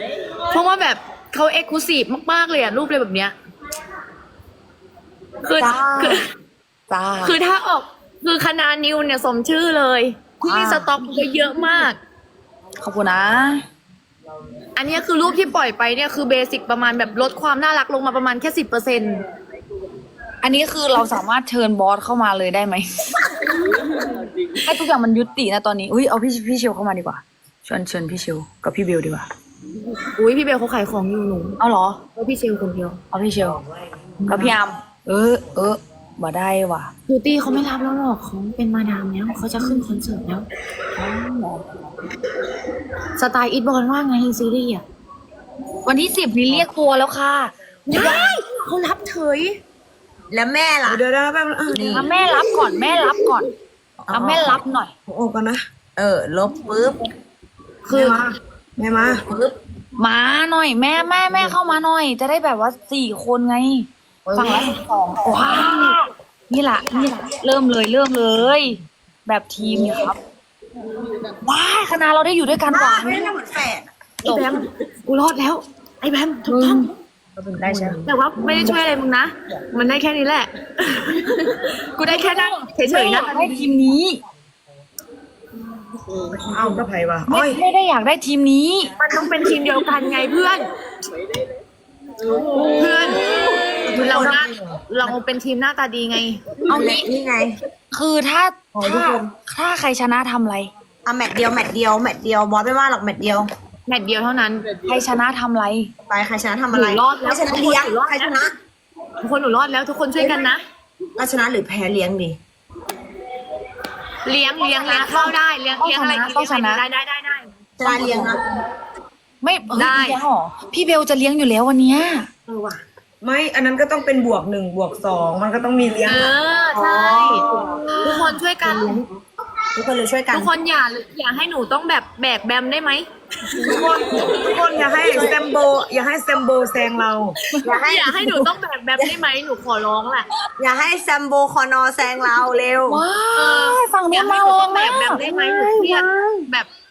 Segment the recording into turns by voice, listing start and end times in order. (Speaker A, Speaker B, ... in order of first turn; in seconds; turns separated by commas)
Speaker A: 0.5-3.3, Speaker A: 5.4-6.3, Speaker B: 5.6-6.2, Speaker C: 6.9-7.4, Speaker A: 7.2-12.0, Speaker C: 10.4-10.9, Speaker C: 12.8-13.6, Speaker A: 14.8-19.2, Speaker C: 20.4-23.2, Speaker C: 24.5-29.3, Speaker A: 30.0-31.6, Speaker C: 31.6-32.0, Speaker A: 32.1-33.0, Speaker C: 33.1-33.6, Speaker A: 34.2-34.5, Speaker C: 34.3-36.9, Speaker A: 37.1-40.5, Speaker C: 41.0-41.6, Speaker A: 41.0-41.6, Speaker A: 43.2-44.8, Speaker C: 45.8-48.3, Speaker A: 47.9-49.6, Speaker B: 50.3-51.0, Speaker D: 50.8-52.1, Speaker B: 51.7-52.1, Speaker C: 51.9-53.5, Speaker D: 54.0-55.6, Speaker B: 54.1-54.6, Speaker C: 54.1-54.9, Speaker B: 56.0-57.1, Speaker C: 57.9-58.2, Speaker D: 57.9-59.2, Speaker C: 60.0-70.2, Speaker A: 64.3-64.7, Speaker B: 64.4-65.1, Speaker C: 71.4-73.3, Speaker B: 72.7-73.9, Speaker A: 74.2-76.9, Speaker C: 76.5-76.9, Speaker D: 77.4-78.0, Speaker B: 77.6-78.1, Speaker C: 77.6-77.9, Speaker A: 78.0-83.3, Speaker C: 78.5-78.8, Speaker C: 82.8-84.2, Speaker D: 86.5-87.6, Speaker B: 86.5-86.8, Speaker C: 87.3-88.9, Speaker A: 89.0-90.7, Speaker C: 92.5-93.6, Speaker A: 92.6-96.6, Speaker B: 93.8-94.5, Speaker D: 93.9-94.8, Speaker C: 96.7-97.0, Speaker B: 96.7-97.6, Speaker C: 97.9-100.7, Speaker B: 98.8-99.3, Speaker B: 101.0-103.5, Speaker A: 103.9-104.7, Speaker C: 104.8-105.9, Speaker B: 106.1-108.5, Speaker A: 106.7-108.4, Speaker A: 109.2-110.6, Speaker B: 111.2-112.4, Speaker A: 114.2-117.5, Speaker C: 114.6-116.8, Speaker B: 117.8-118.4, Speaker C: 117.8-118.4, Speaker C: 119.4-122.3, Speaker A: 119.7-120.2, Speaker B: 122.5-122.8, Speaker D: 123.2-126.3, Speaker A: 126.0-129.0, Speaker B: 126.7-129.1, Speaker C: 127.7-128.3, Speaker B: 129.7-130.5, Speaker A: 130.3-133.1, Speaker B: 133.6-135.3, Speaker D: 133.6-137.4, Speaker B: 137.6-138.4, Speaker A: 137.6-140.3, Speaker B: 140.6-143.0, Speaker C: 142.9-146.5, Speaker A: 143.3-146.7